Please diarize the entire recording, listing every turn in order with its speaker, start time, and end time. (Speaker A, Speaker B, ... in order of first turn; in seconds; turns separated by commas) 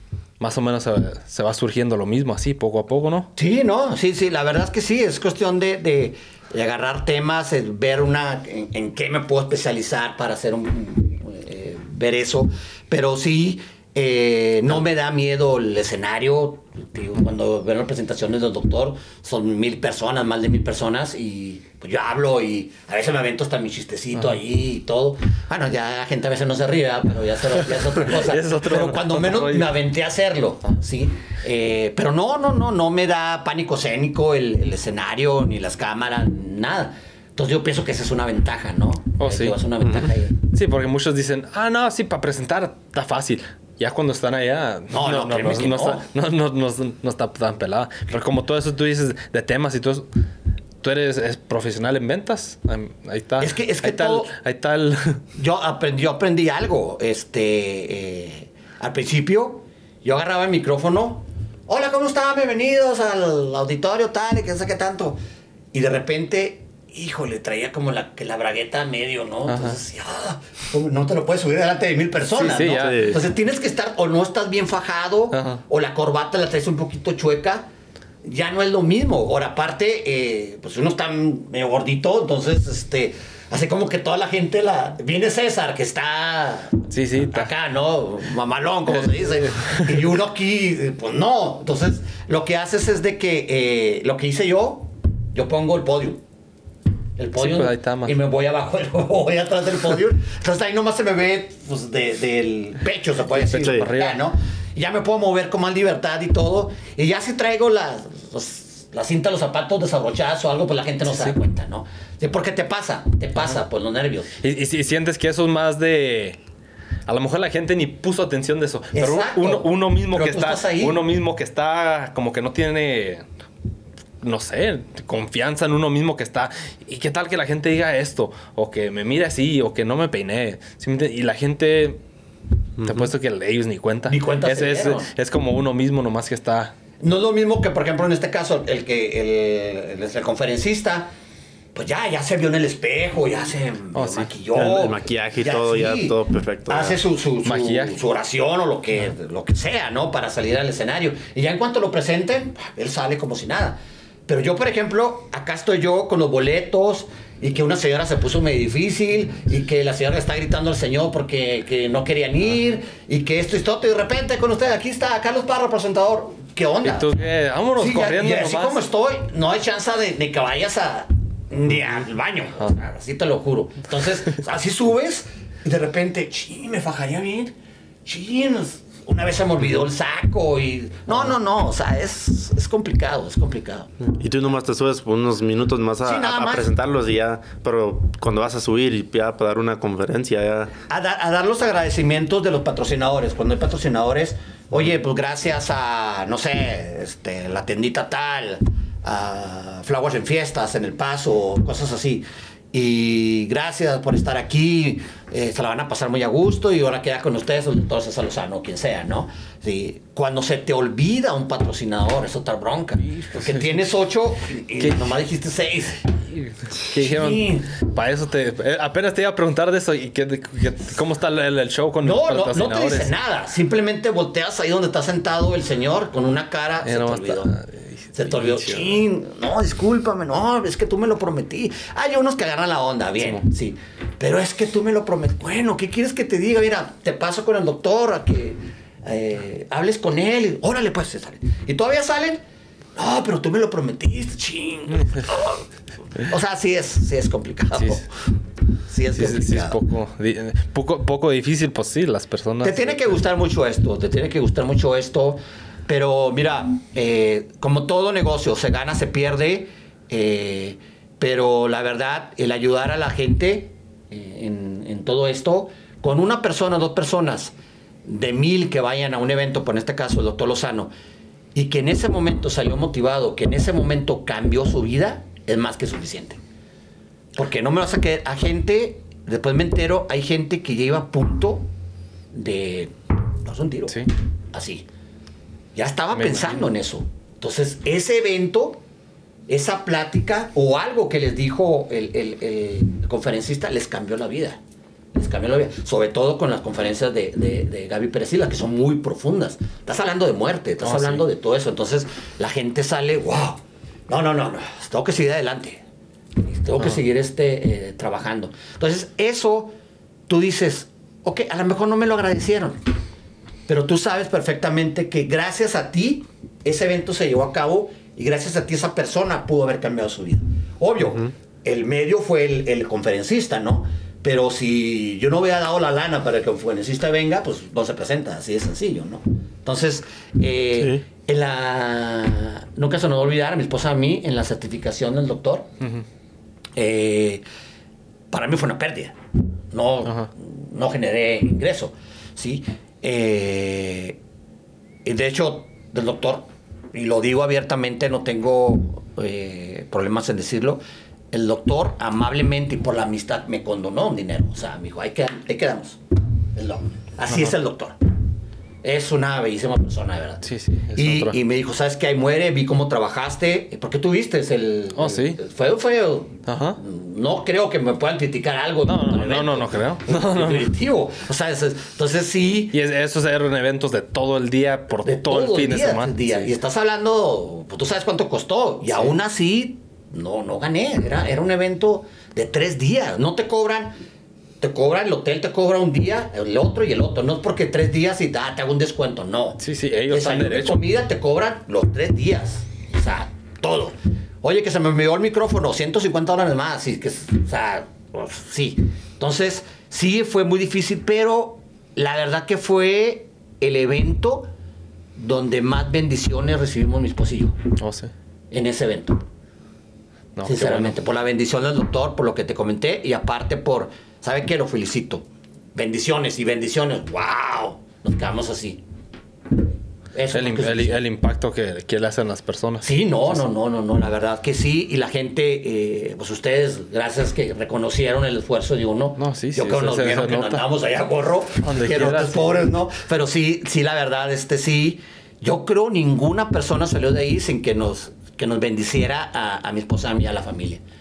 Speaker A: 0.4-3.3, Speaker B: 3.4-40.4, Speaker A: 27.9-29.7, Speaker A: 39.2-39.6, Speaker A: 40.5-50.1, Speaker B: 44.9-46.0, Speaker A: 50.8-55.2, Speaker B: 53.4-54.3, Speaker B: 55.3-65.2, Speaker B: 65.7-77.7, Speaker A: 69.5-69.8, Speaker A: 72.3-73.2, Speaker C: 72.8-73.2, Speaker A: 75.3-75.6, Speaker B: 78.2-96.2, Speaker A: 86.9-87.5, Speaker A: 89.0-89.9, Speaker B: 97.2-114.3, Speaker A: 97.4-98.1, Speaker A: 103.3-104.2, Speaker A: 111.1-111.3, Speaker A: 114.4-116.4, Speaker A: 117.1-123.2, Speaker B: 118.9-121.0, Speaker A: 124.2-132.0, Speaker C: 132.8-133.1, Speaker A: 132.8-136.7, Speaker B: 134.1-135.1, Speaker B: 137.0-141.1, Speaker B: 141.7-146.2, Speaker A: 143.9-144.3, Speaker C: 144.5-147.0, Speaker B: 146.7-167.1, Speaker A: 147.4-148.0, Speaker A: 166.8-168.8, Speaker B: 167.8-177.5, Speaker B: 178.0-183.9, Speaker C: 184.1-190.7, Speaker B: 186.0-186.7, Speaker B: 190.9-216.1, Speaker A: 213.2-213.7, Speaker A: 216.3-223.1, Speaker B: 216.9-217.7, Speaker B: 222.0-227.5, Speaker A: 226.8-229.0, Speaker B: 228.1-242.4, Speaker A: 233.2-233.4, Speaker B: 242.9-245.7, Speaker B: 246.2-248.1, Speaker A: 247.7-248.0, Speaker B: 248.9-249.8, Speaker A: 249.1-253.2, Speaker B: 252.6-267.5, Speaker B: 268.0-270.9, Speaker B: 271.5-276.4, Speaker B: 277.4-281.7, Speaker B: 282.3-284.9, Speaker B: 285.7-288.8, Speaker A: 286.1-286.6, Speaker B: 289.5-294.6, Speaker B: 295.1-305.8, Speaker A: 300.8-301.2, Speaker B: 306.4-309.7, Speaker B: 310.3-312.8, Speaker B: 313.7-335.7, Speaker C: 330.8-331.0, Speaker B: 336.8-337.4, Speaker B: 338.3-339.1, Speaker B: 339.7-344.2, Speaker B: 345.0-356.0, Speaker B: 356.5-358.0, Speaker B: 358.8-360.4, Speaker A: 360.4-361.4, Speaker B: 360.9-372.7, Speaker A: 364.9-365.4, Speaker A: 366.4-366.8, Speaker A: 368.9-370.7, Speaker A: 372.7-376.5, Speaker B: 375.0-384.0, Speaker B: 384.6-404.5, Speaker A: 389.6-390.8, Speaker B: 405.1-407.6, Speaker A: 407.8-408.1, Speaker B: 408.5-409.2, Speaker A: 410.4-410.9, Speaker B: 410.4-418.8, Speaker B: 420.1-421.0, Speaker A: 420.3-423.5, Speaker B: 422.8-440.8, Speaker A: 429.2-430.6, Speaker A: 431.6-432.7